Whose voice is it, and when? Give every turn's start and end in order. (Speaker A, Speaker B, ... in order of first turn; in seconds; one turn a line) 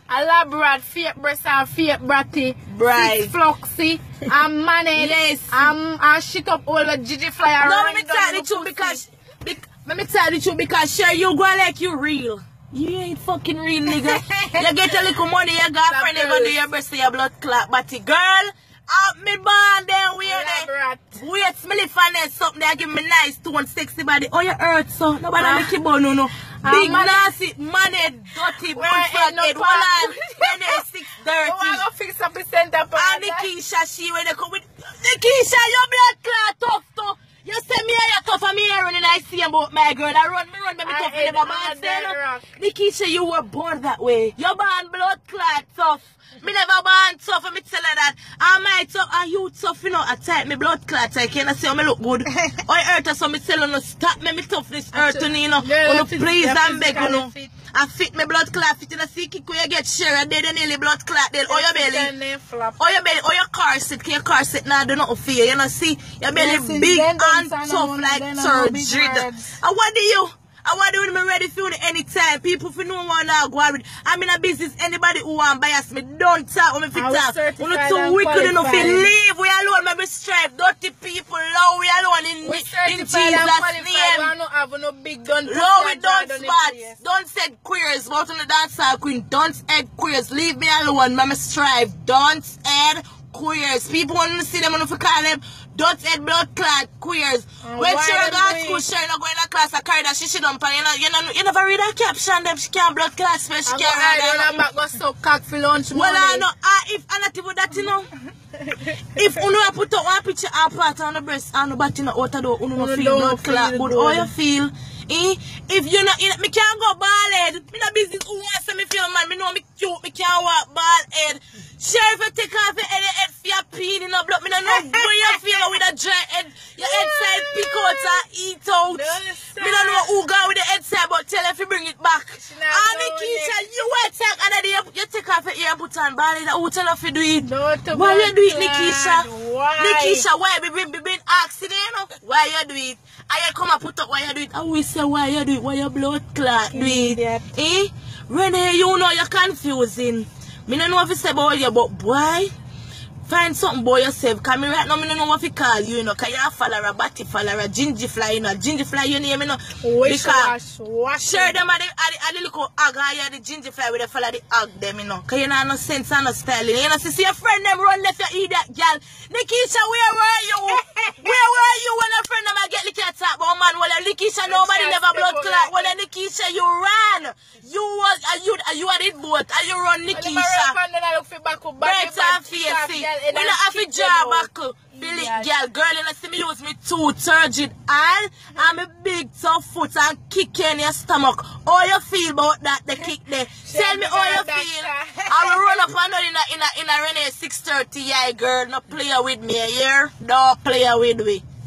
Speaker A: 0.1-9.0
Speaker B: 2.7-3.3
Speaker B: 5.0-5.7
Speaker B: 7.6-31.9
Speaker A: 13.9-15.1
Speaker A: 15.9-16.6
Speaker A: 20.2-21.2
Speaker A: 25.4-25.7
Speaker A: 26.6-27.3
Speaker A: 28.7-30.8
Speaker A: 31.4-33.5
Speaker B: 33.0-62.1
Speaker A: 40.8-42.5
Speaker A: 54.9-57.5
Speaker A: 61.5-62.8
Speaker B: 62.8-84.3
Speaker A: 66.3-69.5
Speaker A: 76.9-79.1
Speaker A: 82.4-87.0
Speaker B: 85.5-104.6
Speaker A: 97.6-98.8
Speaker A: 103.7-106.5
Speaker B: 105.9-108.1
Speaker A: 108.6-109.0
Speaker B: 109.1-139.3
Speaker A: 112.8-114.3
Speaker A: 124.7-125.7
Speaker A: 126.8-128.2
Speaker A: 128.9-130.1
Speaker A: 132.4-133.6
Speaker A: 137.4-140.3
Speaker B: 139.8-152.5
Speaker A: 146.7-147.5
Speaker B: 153.3-160.5
Speaker A: 159.8-161.6
Speaker B: 161.2-180.8
Speaker A: 170.7-171.4
Speaker A: 174.5-176.0
Speaker A: 180.1-185.5
Speaker B: 181.8-201.4
Speaker A: 193.6-195.8